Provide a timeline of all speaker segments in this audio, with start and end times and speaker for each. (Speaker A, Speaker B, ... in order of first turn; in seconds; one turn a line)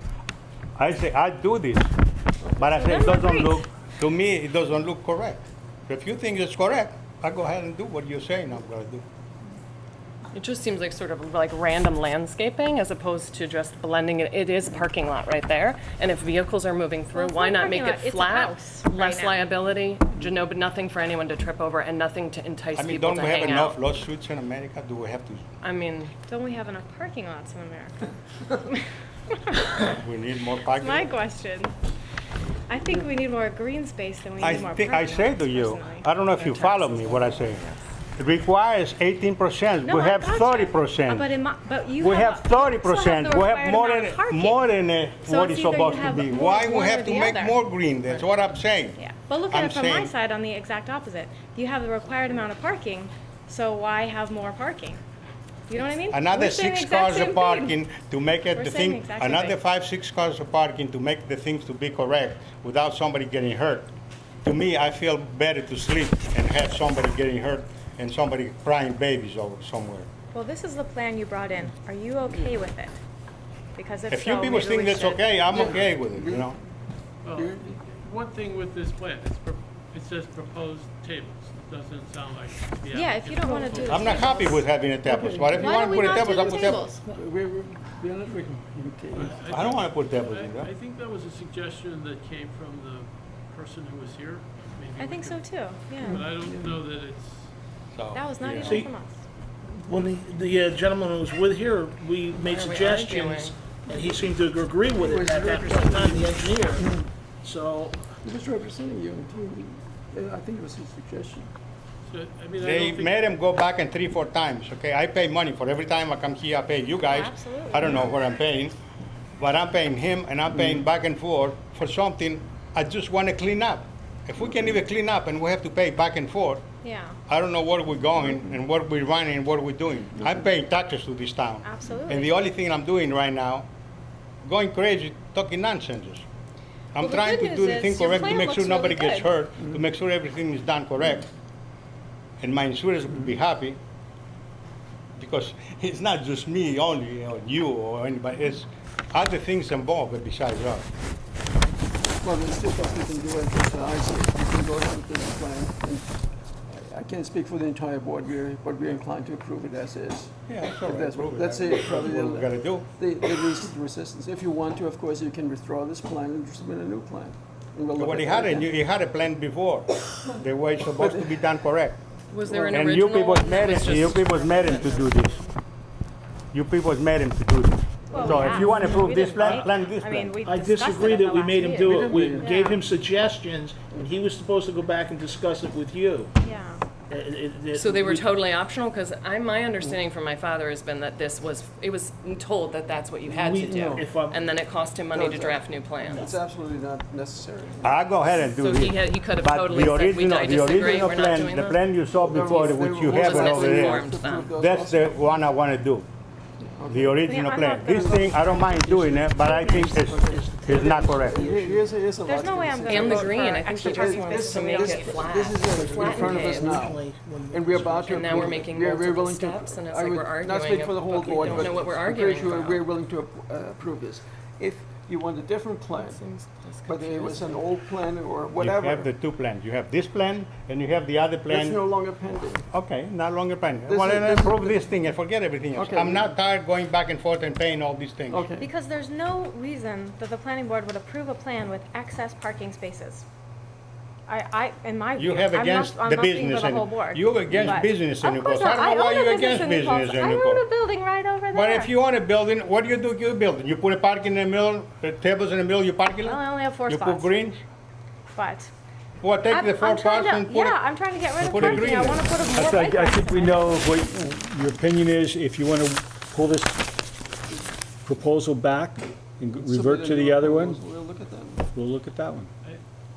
Speaker A: 0.8-1.9
Speaker A: 2.6-9.1
Speaker B: 2.7-3.6
Speaker C: 10.3-23.8
Speaker B: 17.1-19.4
Speaker A: 22.7-25.4
Speaker C: 25.6-26.1
Speaker B: 26.3-29.6
Speaker A: 29.9-31.2
Speaker B: 30.7-31.7
Speaker B: 32.7-37.3
Speaker A: 34.4-41.3
Speaker B: 39.8-44.6
Speaker A: 42.0-49.0
Speaker B: 45.2-47.5
Speaker B: 49.0-55.0
Speaker A: 49.5-50.1
Speaker B: 55.7-57.8
Speaker A: 56.1-63.9
Speaker B: 58.5-59.6
Speaker A: 64.4-70.1
Speaker B: 70.3-72.9
Speaker B: 73.7-75.2
Speaker A: 74.1-76.5
Speaker D: 75.5-76.6
Speaker E: 77.2-84.3
Speaker D: 77.3-77.8
Speaker B: 82.9-84.6
Speaker A: 83.8-86.9
Speaker D: 85.0-89.4
Speaker B: 85.6-87.0
Speaker E: 89.1-95.5
Speaker A: 89.5-90.7
Speaker B: 95.0-96.2
Speaker E: 96.0-97.5
Speaker D: 96.1-96.8
Speaker A: 97.9-98.8
Speaker B: 98.1-99.2
Speaker F: 98.6-98.9
Speaker F: 99.8-106.9
Speaker C: 102.4-103.6
Speaker D: 105.0-107.0
Speaker F: 107.4-108.1
Speaker D: 108.2-111.5
Speaker E: 112.0-113.2
Speaker A: 112.6-118.8
Speaker B: 117.0-118.0
Speaker A: 119.4-126.6
Speaker B: 126.8-127.2
Speaker A: 127.3-133.7
Speaker B: 131.6-132.3
Speaker A: 134.4-136.2
Speaker A: 136.9-141.3
Speaker B: 137.0-139.3
Speaker A: 142.4-143.8
Speaker A: 145.2-150.9
Speaker D: 152.2-156.1
Speaker D: 156.7-168.7
Speaker A: 160.5-162.9
Speaker A: 168.0-172.0
Speaker D: 171.0-171.4
Speaker C: 172.3-175.4
Speaker D: 172.5-172.8
Speaker A: 172.7-175.4
Speaker A: 176.5-180.4
Speaker B: 178.1-182.8
Speaker F: 178.5-178.9
Speaker F: 180.4-186.3
Speaker D: 181.6-182.7
Speaker B: 186.4-186.8
Speaker F: 187.1-188.3
Speaker C: 187.7-196.3
Speaker F: 193.3-194.3
Speaker D: 193.6-194.0
Speaker D: 195.1-198.0
Speaker F: 196.0-196.3
Speaker A: 197.8-204.0
Speaker C: 198.5-201.8
Speaker D: 202.1-205.2
Speaker C: 203.1-204.5
Speaker A: 204.6-206.1
Speaker D: 206.6-207.2
Speaker A: 206.9-211.5
Speaker B: 207.2-208.9
Speaker D: 208.0-208.3
Speaker F: 208.8-211.8
Speaker D: 209.7-226.2
Speaker B: 212.2-215.3
Speaker C: 212.8-216.8
Speaker F: 215.7-218.6
Speaker C: 218.1-222.8
Speaker C: 225.9-227.7
Speaker D: 226.8-229.1
Speaker A: 228.6-231.8
Speaker D: 231.5-232.7
Speaker A: 232.7-238.4
Speaker D: 233.9-234.9
Speaker D: 235.7-236.3
Speaker D: 238.3-238.7
Speaker B: 238.6-243.2
Speaker B: 244.3-251.9
Speaker A: 245.2-250.6
Speaker D: 247.5-247.8
Speaker A: 251.5-257.6
Speaker B: 256.2-257.3
Speaker B: 258.3-258.7
Speaker A: 259.2-262.6
Speaker B: 259.5-263.8
Speaker F: 261.6-261.9
Speaker G: 262.5-266.7
Speaker F: 262.8-264.4
Speaker G: 268.0-270.8
Speaker D: 269.5-271.6
Speaker F: 269.5-270.6
Speaker G: 271.7-272.5